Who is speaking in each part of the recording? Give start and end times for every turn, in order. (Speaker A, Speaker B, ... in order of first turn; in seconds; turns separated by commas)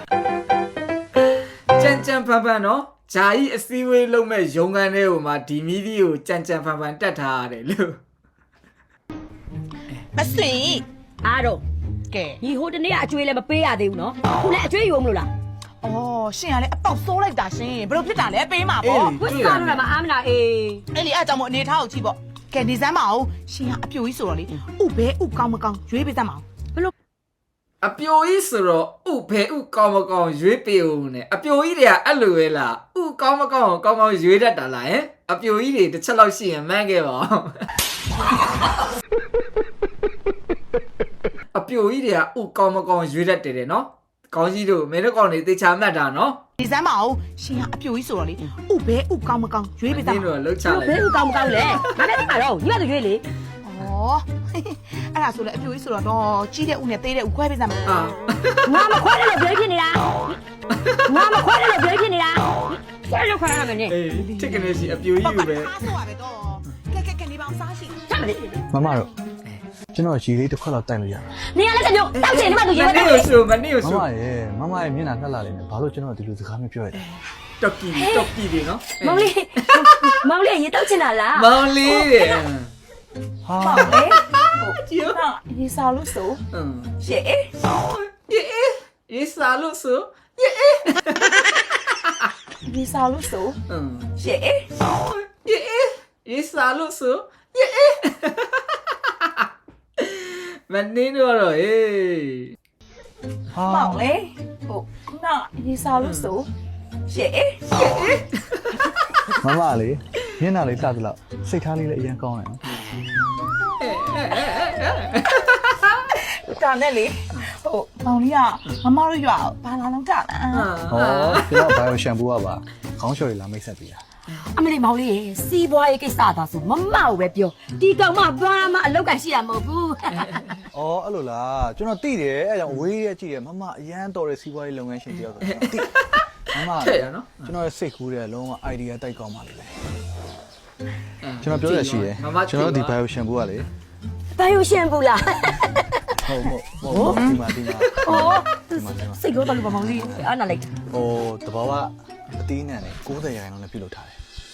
Speaker A: 1.8-8.0, Speaker A: 9.9-10.8, Speaker B: 10.2-10.8, Speaker C: 11.2-11.6, Speaker B: 12.1-12.4, Speaker C: 12.4-15.3, Speaker B: 15.8-19.2, Speaker A: 18.8-19.9, Speaker C: 19.2-20.8, Speaker B: 20.9-26.4, Speaker A: 27.8-37.7, Speaker A: 41.5-46.4, Speaker B: 46.6-50.3, Speaker A: 49.9-51.8, Speaker C: 50.6-53.2, Speaker B: 53.6-57.9, Speaker A: 57.9-58.7, Speaker C: 58.6-60.3, Speaker C: 61.1-63.9, Speaker A: 63.9-65.7, Speaker B: 64.1-68.0, Speaker C: 68.1-68.6, Speaker D: 68.7-69.1, Speaker D: 69.9-71.3, Speaker C: 71.5-73.3, Speaker A: 72.2-74.1, Speaker D: 73.8-77.0, Speaker A: 77.6-80.1, Speaker C: 79.0-81.5, Speaker A: 81.3-82.7, Speaker D: 83.5-84.0, Speaker B: 83.6-86.4, Speaker A: 84.8-85.2, Speaker A: 86.5-87.0, Speaker B: 87.0-87.5, Speaker A: 87.7-92.1, Speaker B: 92.6-93.6, Speaker A: 93.7-94.1, Speaker B: 94.2-94.7, Speaker A: 95.1-99.5, Speaker A: 100.0-102.5, Speaker D: 103.5-104.0, Speaker B: 103.7-106.5, Speaker A: 106.0-106.3, Speaker B: 107.1-107.9, Speaker A: 107.8-109.2, Speaker D: 109.4-112.6, Speaker A: 113.8-116.0, Speaker B: 116.5-120.7, Speaker A: 120.5-121.7, Speaker D: 120.9-124.0, Speaker C: 124.5-130.2, Speaker D: 130.7-135.9, Speaker A: 135.4-136.2, Speaker D: 136.5-139.8, Speaker A: 136.8-137.6, Speaker A: 141.2-143.0, Speaker D: 141.4-143.7, Speaker C: 144.3-145.8, Speaker D: 146.2-150.3, Speaker C: 146.9-147.3, Speaker C: 148.1-150.7, Speaker D: 150.9-154.2